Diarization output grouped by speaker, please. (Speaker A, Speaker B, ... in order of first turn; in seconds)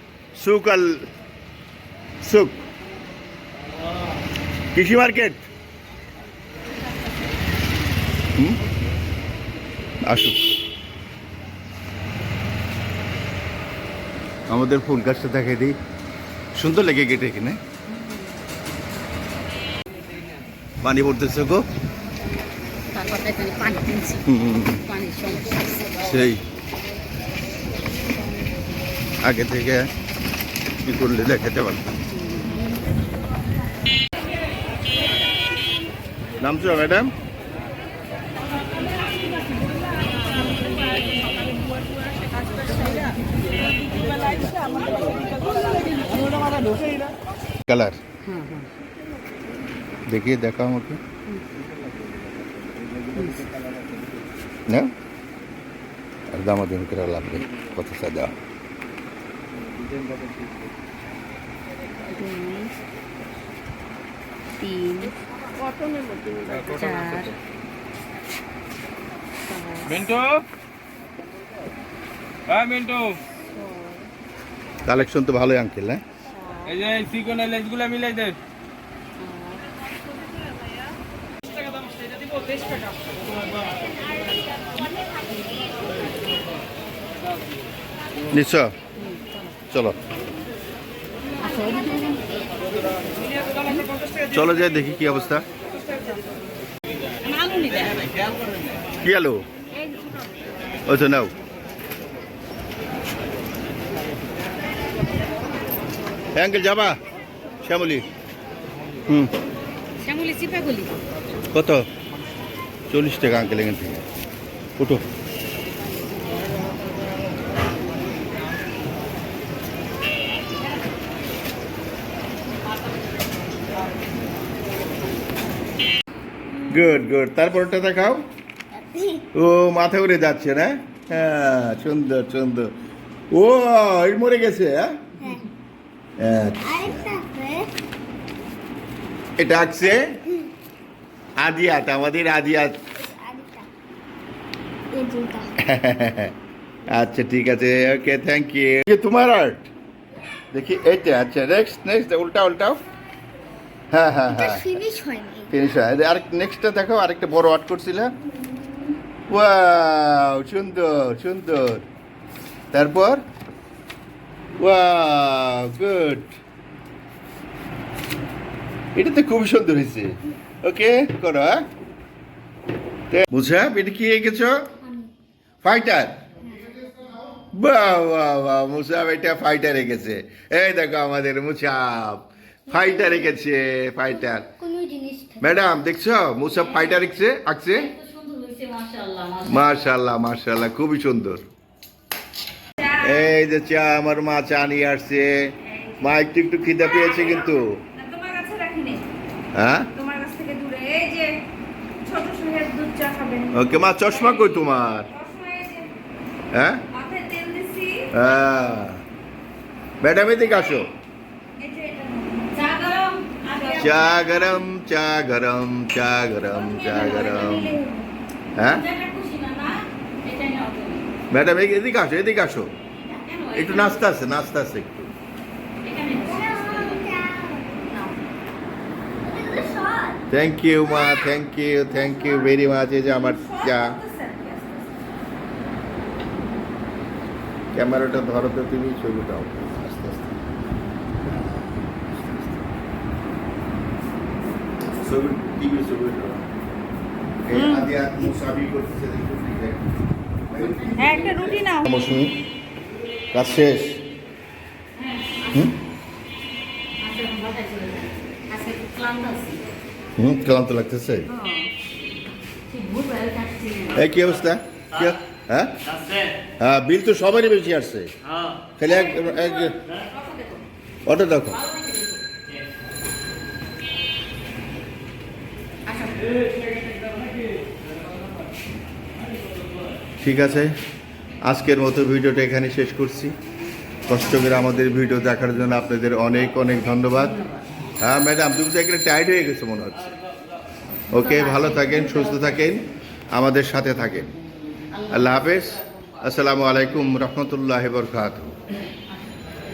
Speaker A: 0.3-1.1, 2.2-2.6, 4.7-5.5, 10.1-10.4, 14.5-15.8, 16.5-17.6, 20.8-21.6, 24.3-24.8, 26.0-26.4, 29.2-29.9, 30.8-31.9, 36.4-37.1, 47.7-48.0, 50.1-51.0, 56.3-58.3, 74.8-76.0, 88.3-88.7, 89.7-90.0, 94.3-95.4, 99.0-99.4, 100.8-101.3, 106.3-107.0, 107.6-108.0, 109.0-109.3, 111.5-111.8, 112.9-114.0, 114.8-115.0, 126.7-128.2, 129.3-132.7, 133.3-135.0, 136.2-137.1, 139.4-140.2, 141.4-142.8, 145.6-146.3, 146.9-149.7, 150.5-152.8, 153.9-154.7, 155.5-158.1, 159.3-161.8, 162.7-163.2, 164.6-166.3, 168.9-171.6, 173.1-174.7, 175.6-176.2, 177.5-184.5, 185.4-187.9, 189.5-191.5, 192.9-197.8, 199.5-199.9, 203.5-205.1, 206.5-206.8, 208.1-209.0, 210.0-210.9, 213.8-217.8, 218.6-218.8, 221.3-222.7, 223.6-225.1, 230.3-234.0, 237.7-240.3, 242.1-242.5, 244.9-246.4, 247.4-249.9, 250.5-252.3, 253.3-254.0, 260.2-261.3, 263.9-265.8, 266.6-268.1, 268.8-269.8, 271.1-271.6, 280.2-280.7, 281.4-283.3, 284.1-287.3, 288.0-290.1, 291.1-294.3, 295.1-298.6
Speaker B: 17.9-18.3, 22.9-26.1, 32.1-32.7, 48.2-48.7, 53.1-53.5, 62.1-62.7, 64.6-65.1, 66.6-67.3, 69.5-70.0, 79.2-79.6, 89.0-89.3, 91.4-92.5, 97.2-98.2, 110.0-110.9, 186.4-187.1, 187.7-189.8, 195.6-196.2, 212.5-214.4, 218.6-221.1, 223.2-224.1, 225.8-227.1, 250.5-251.5, 254.9-255.7, 257.0-259.6, 262.7-264.1, 268.9-270.6, 271.5-272.2, 275.9-276.3, 284.6-285.5, 286.3-287.9, 291.1-292.7, 294.9-295.4
Speaker C: 66.5-66.9, 69.9-70.4, 72.5-73.2, 76.7-78.4
Speaker D: 128.7-129.2, 135.2-135.5, 136.5-137.7, 143.0-143.7, 144.9-145.6, 154.3-155.5, 174.8-175.1, 176.4-177.3, 182.8-183.2, 184.3-185.6, 226.7-227.8, 229.2-230.2
Speaker E: 196.8-199.1, 199.9-201.4, 202.0-205.9, 206.9-208.1, 211.6-212.6, 213.5-214.2, 216.5-218.1, 233.0-234.9, 247.5-247.9, 251.0-251.8, 261.3-261.7